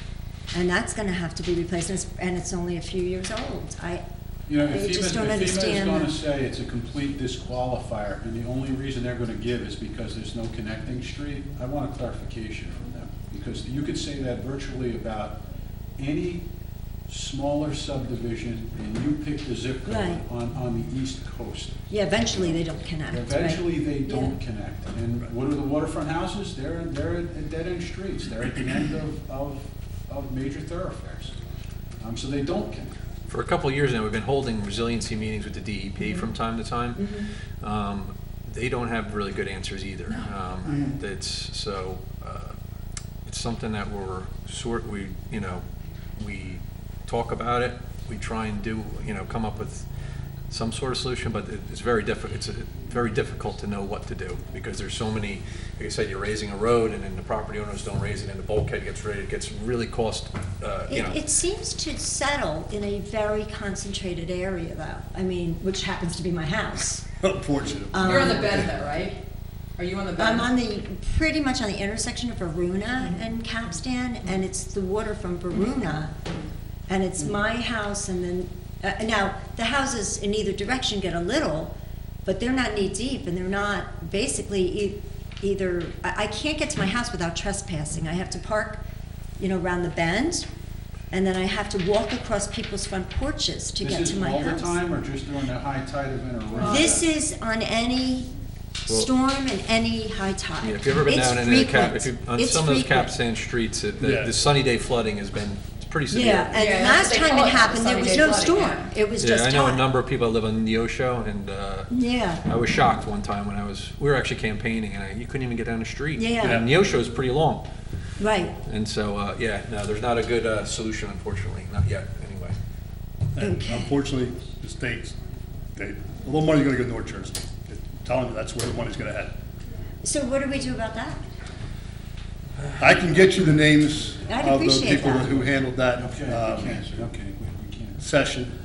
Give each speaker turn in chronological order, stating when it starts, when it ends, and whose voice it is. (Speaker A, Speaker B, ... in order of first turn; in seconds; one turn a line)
Speaker A: 0.5-4.0
Speaker B: 4.5-15.4
Speaker A: 4.7-6.1
Speaker B: 16.0-16.4
Speaker B: 17.1-21.9
Speaker A: 19.9-20.2
Speaker A: 21.9-24.3
Speaker B: 23.1-31.4
Speaker B: 32.0-33.0
Speaker C: 33.3-42.5
Speaker A: 37.0-37.2
Speaker C: 43.2-45.6
Speaker C: 46.2-49.9
Speaker C: 50.5-61.2
Speaker A: 60.9-67.1
Speaker D: 67.2-68.7
Speaker A: 67.9-68.6
Speaker E: 68.0-69.2
Speaker E: 69.8-70.5
Speaker A: 70.2-76.1
Speaker A: 76.9-81.7
Speaker A: 82.2-88.8
Speaker A: 89.4-90.5
Speaker A: 91.1-94.8
Speaker B: 93.8-97.0
Speaker E: 96.6-97.0
Speaker A: 96.6-98.3
Speaker A: 98.9-103.1
Speaker C: 100.6-106.9
Speaker D: 104.0-104.3
Speaker A: 106.1-109.8
Speaker E: 106.5-108.9
Speaker C: 109.2-111.9
Speaker A: 111.9-112.4
Speaker C: 112.4-117.6
Speaker A: 116.2-116.6
Speaker D: 116.4-116.7
Speaker A: 118.2-118.6
Speaker C: 118.6-122.5
Speaker D: 123.3-125.1
Speaker A: 123.4-123.9
Speaker D: 125.7-129.3
Speaker A: 130.0-131.2
Speaker D: 132.8-136.8
Speaker A: 134.3-135.3
Speaker B: 135.9-138.1
Speaker D: 138.0-138.5